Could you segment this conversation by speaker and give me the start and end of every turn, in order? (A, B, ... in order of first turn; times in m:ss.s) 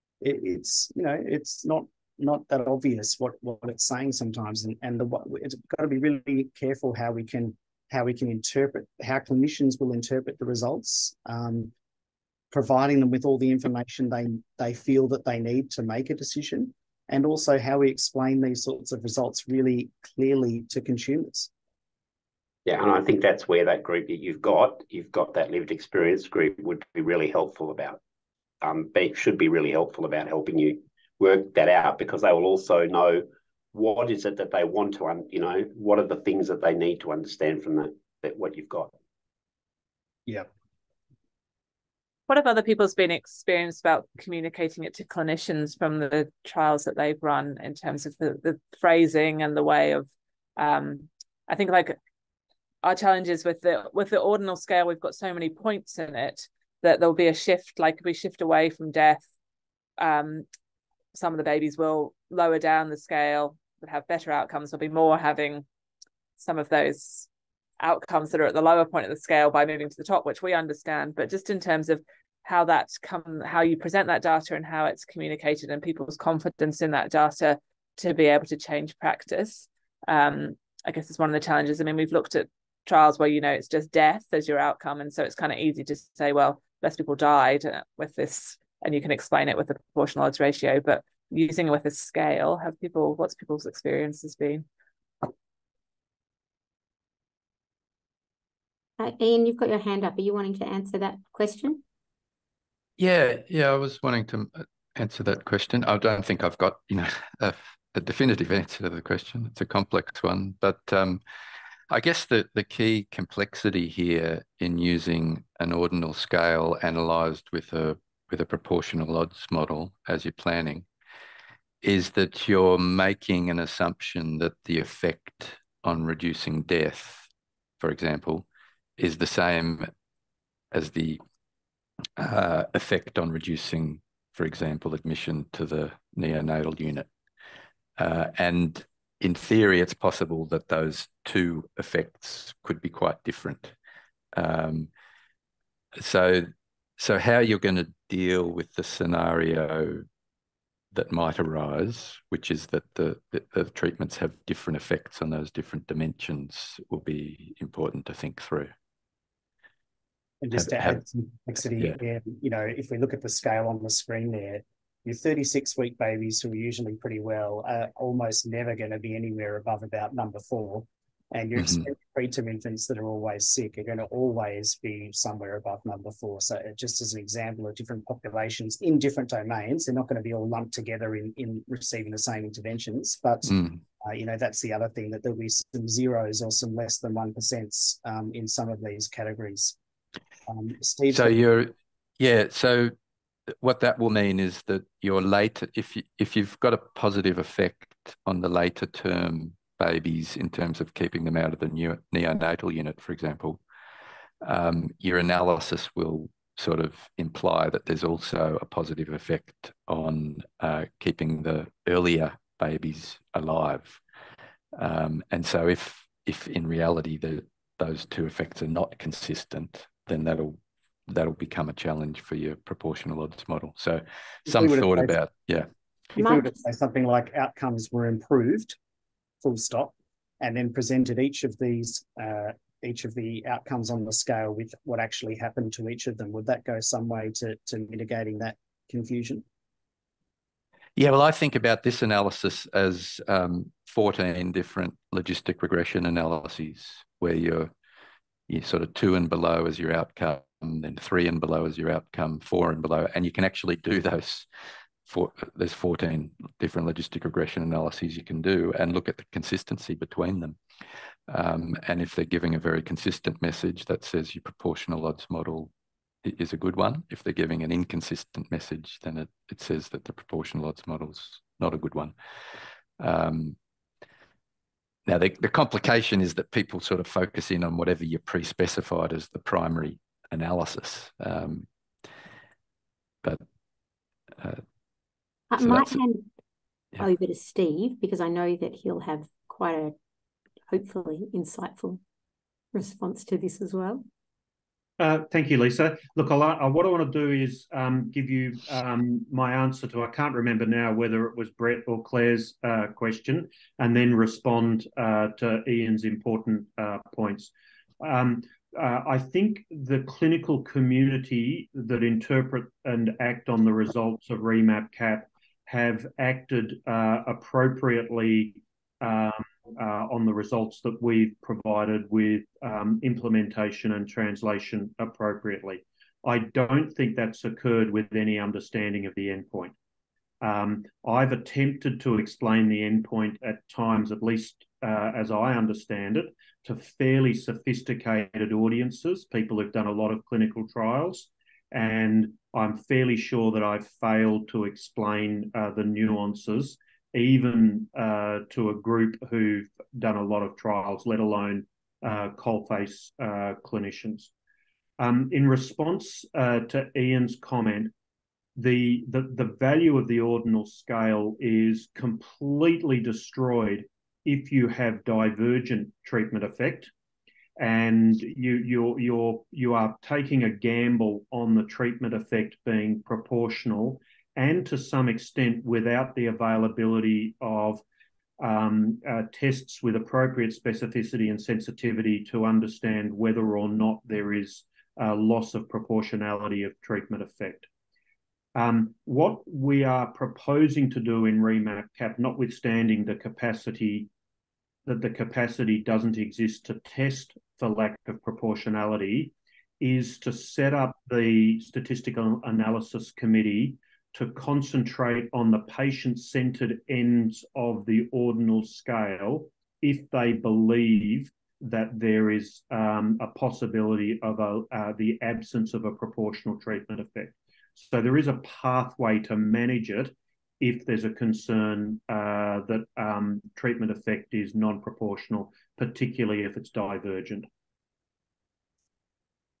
0:00.2-0:11.7 A
0:12.5-0:21.5 A
0:22.6-0:28.0 B
0:28.6-0:38.9 B
0:42.3-0:52.0 C
0:52.8-0:59.2 C
1:00.0-1:00.4 C
1:01.1-1:05.6 C
1:06.4-1:07.3 C
1:07.8-1:34.6 C
1:39.0-1:41.8 D
1:43.0-1:51.2 E
1:51.9-2:00.9 E
2:01.8-2:07.3 E
2:07.8-2:08.4 E
2:09.0-2:09.9 E
2:10.7-2:11.2 E
2:12.2-2:17.1 E
2:18.0-2:23.7 E
2:24.3-2:24.9 E
2:26.0-2:30.0 E
2:30.9-2:38.7 E
2:40.4-3:09.8 A
2:40.5-2:41.0 E
3:03.5-3:03.8 E
3:10.5-3:11.4 A
3:11.1-3:13.0 E
3:13.5-3:23.6 E
3:24.4-3:34.0 E
3:34.7-3:45.7 E
3:44.5-3:45.2 A
3:46.1-3:48.8 A
3:46.2-3:46.6 D
3:49.4-3:59.4 A
4:01.0-4:07.7 E
4:08.5-4:14.5 E
4:15.1-4:20.6 E
4:21.3-4:25.7 E
4:26.2-4:33.6 E
4:35.0-4:41.7 E
4:45.5-4:46.3 D
4:45.6-4:46.0 E
4:47.0-4:49.9 D
4:50.7-4:52.0 D
4:52.7-4:54.0 D
4:55.0-5:29.8 F
5:30.4-5:54.3 F
5:55.0-5:57.9 F
5:58.6-6:06.9 F
6:07.6-6:17.8 F
6:18.4-6:27.7 F
6:28.5-6:34.1 F
6:34.8-7:07.5 F